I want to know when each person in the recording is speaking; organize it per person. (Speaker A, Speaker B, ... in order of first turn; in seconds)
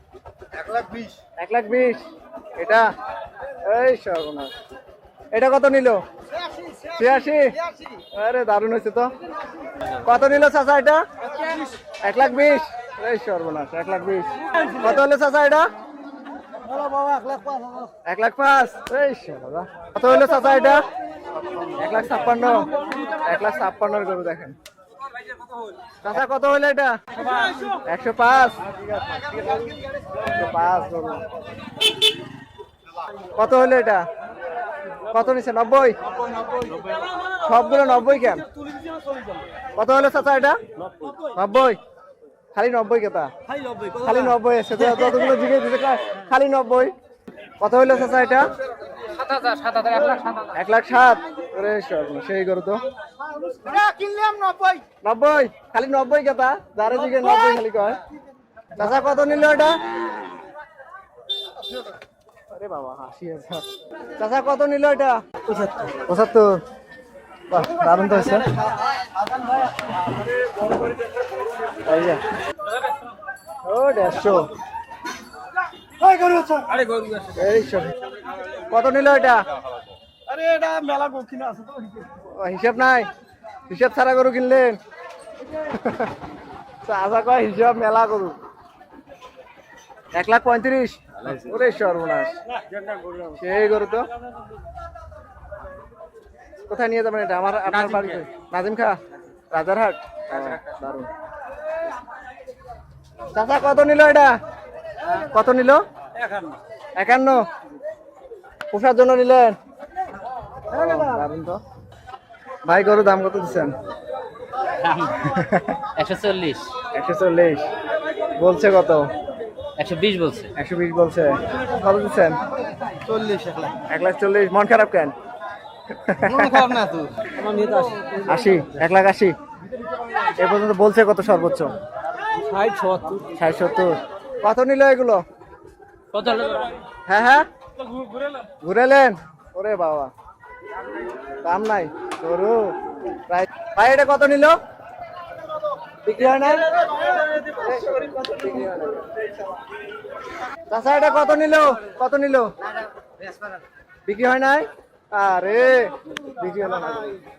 Speaker A: 1.4-2.0, 2.6-2.9, 3.6-4.5, 5.3-6.0, 6.9-9.1, 10.0-11.0, 12.0-15.7, 18.0-20.9, 21.8-24.6, 26.0-27.0, 27.8-28.6, 30.2-31.2, 33.3-34.0, 35.1-36.0, 37.4-38.5, 39.8-40.6, 41.2-41.8, 42.5-43.3, 43.9-46.9, 47.6-48.5, 50.5-52.8, 55.0-58.0, 58.8-59.8, 62.5-63.6, 64.2-65.2, 65.9-66.6, 67.5-68.6, 71.8-72.2, 73.6-74.5, 77.3-77.9, 78.7-79.5, 82.1-83.1, 83.7-84.8, 85.7-86.1, 86.8-88.3, 90.1-92.3, 93.3-94.1, 96.7-99.0, 99.5-101.1, 103.3-104.3, 105.1-105.8, 107.0-107.4, 108.7-109.6, 110.7-111.6, 112.7-113.7, 115.2-115.8, 116.9-117.7, 118.4-119.1, 120.5-122.4, 123.8-125.1, 125.9-126.9, 128.2-129.3, 130.3-131.8, 133.3-135.2, 137.1-137.4, 138.6-140.1, 141.4-142.7, 143.3-144.6, 146.0-146.8, 147.3-149.1, 150.7-152.5, 154.1-157.2
Speaker B: 16.6-17.9, 36.6-36.9, 53.4-54.8, 76.0-77.3, 80.3-82.1, 123.0-123.7, 126.4-128.2, 132.5-133.2, 136.2-136.7
Speaker C: 49.2-50.3, 114.8-115.3, 115.9-116.8, 119.8-120.5